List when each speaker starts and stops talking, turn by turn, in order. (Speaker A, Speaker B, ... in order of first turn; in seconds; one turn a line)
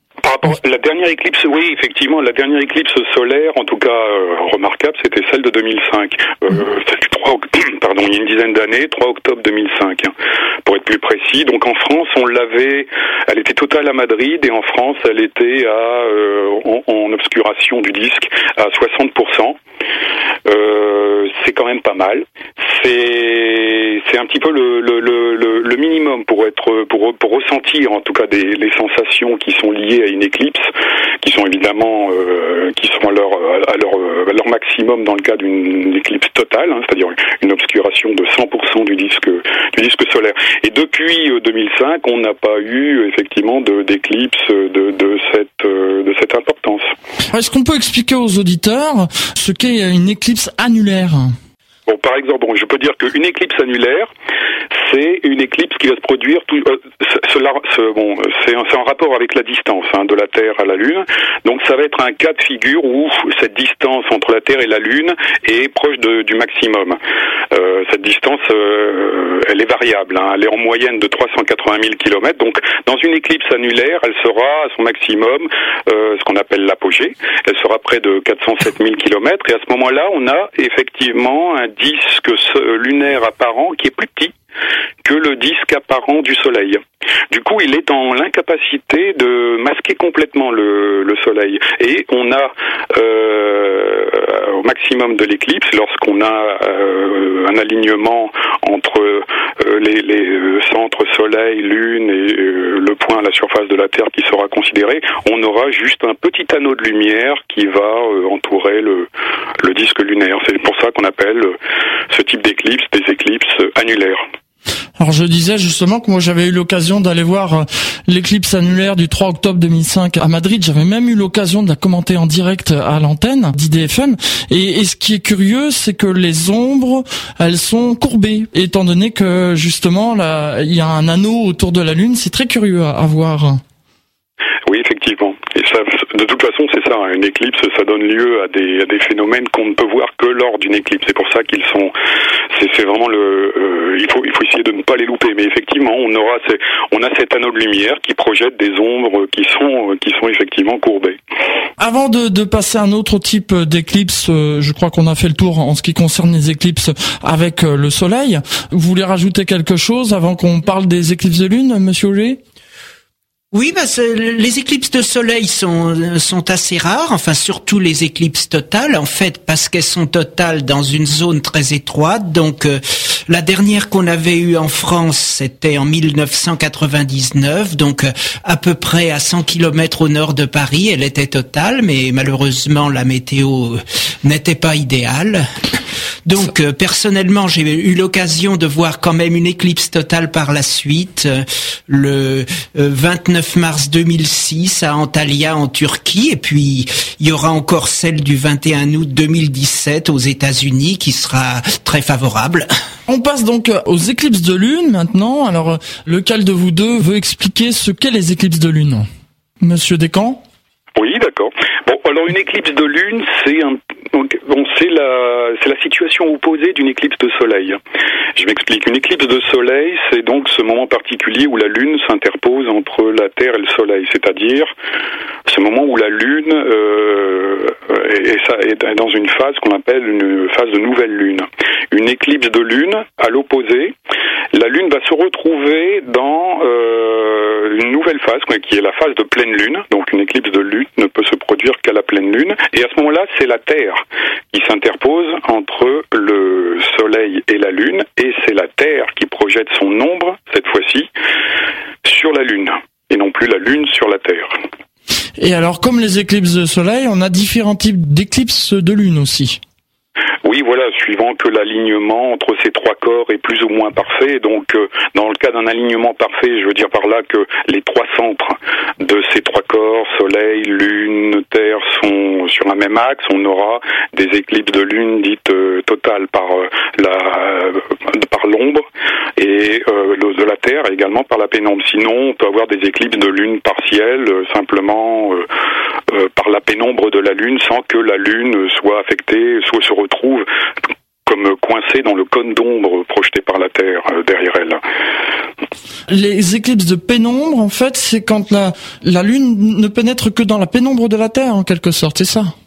Speaker A: 0.2-10.1
Speaker A: 10.7-19.6
Speaker A: 20.4-30.7
Speaker A: 31.2-46.9
Speaker B: 47.3-51.4
Speaker A: 51.9-54.1
Speaker A: 54.7-67.0
Speaker A: 67.5-84.3
Speaker A: 85.0-109.1
Speaker A: 109.6-111.6
Speaker A: 112.1-114.2
Speaker B: 115.0-133.6
Speaker A: 134.7-141.9
Speaker A: 142.5-151.2
Speaker B: 151.8-162.4
Speaker C: 163.5-202.7
Speaker B: 203.1-209.1
Speaker B: 209.6-210.4
Speaker A: 211.0-217.8
Speaker A: 218.4-224.7
Speaker A: 225.5-233.9
Speaker A: 234.5-251.1
Speaker A: 252.0-254.6
Speaker B: 255.4-259.6
Speaker A: 260.4-278.8
Speaker A: 279.4-285.5
Speaker A: 286.1-290.5
Speaker A: 291.3-294.8
Speaker B: 296.1-302.5